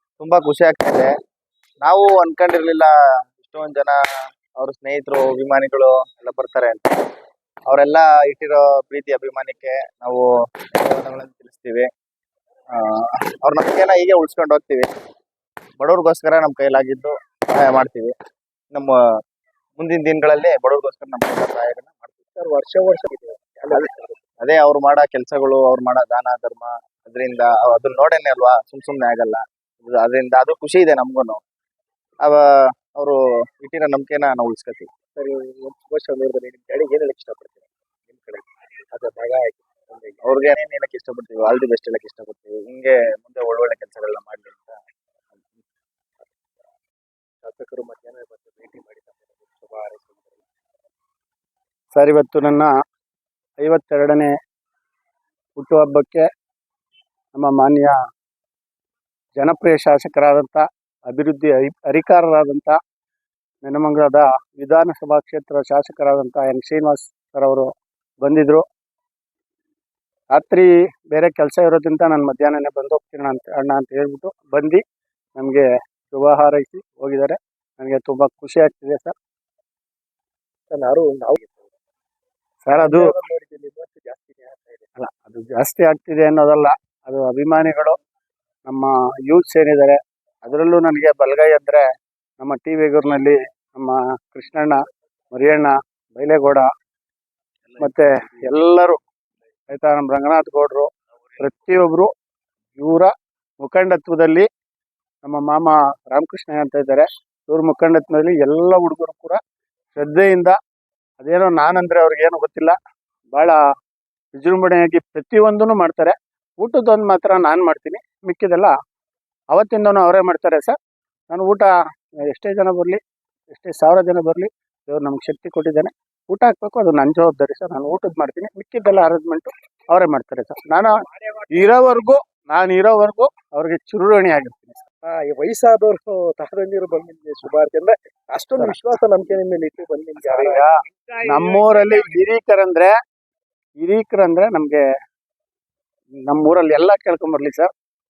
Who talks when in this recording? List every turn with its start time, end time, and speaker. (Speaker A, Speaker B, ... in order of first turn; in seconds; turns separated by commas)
Speaker A: 0.2-1.1, Speaker A: 1.8-4.0, Speaker A: 4.6-6.8, Speaker A: 7.7-10.2, Speaker A: 10.8-11.9, Speaker A: 12.7-14.9, Speaker A: 15.8-18.1, Speaker A: 19.8-22.1, Speaker B: 22.4-24.3, Speaker A: 24.4-31.4, Speaker A: 33.0-34.9, Speaker B: 35.1-40.2, Speaker A: 40.2-44.8, Speaker B: 47.4-50.5, Speaker C: 51.9-52.7, Speaker C: 53.6-54.3, Speaker C: 55.6-56.2, Speaker C: 57.3-57.9, Speaker C: 59.4-62.7, Speaker C: 63.6-67.7, Speaker C: 68.2-68.6, Speaker C: 70.3-74.8, Speaker C: 75.3-79.1, Speaker B: 80.7-81.7, Speaker C: 82.6-83.1, Speaker B: 82.7-84.9, Speaker C: 85.0-88.0, Speaker C: 88.7-91.8, Speaker C: 92.4-94.8, Speaker C: 95.3-96.7, Speaker C: 97.8-99.0, Speaker C: 99.7-102.1, Speaker C: 102.8-104.5, Speaker C: 105.2-109.4, Speaker C: 110.0-110.5, Speaker C: 111.2-112.7, Speaker C: 113.3-113.6, Speaker C: 114.3-118.7, Speaker C: 119.5-120.7, Speaker C: 121.3-121.7, Speaker C: 122.3-123.0, Speaker C: 123.5-130.9, Speaker C: 131.5-134.8, Speaker B: 135.0-140.6, Speaker C: 140.2-140.7, Speaker C: 141.3-142.9, Speaker C: 143.8-144.8, Speaker C: 146.2-147.7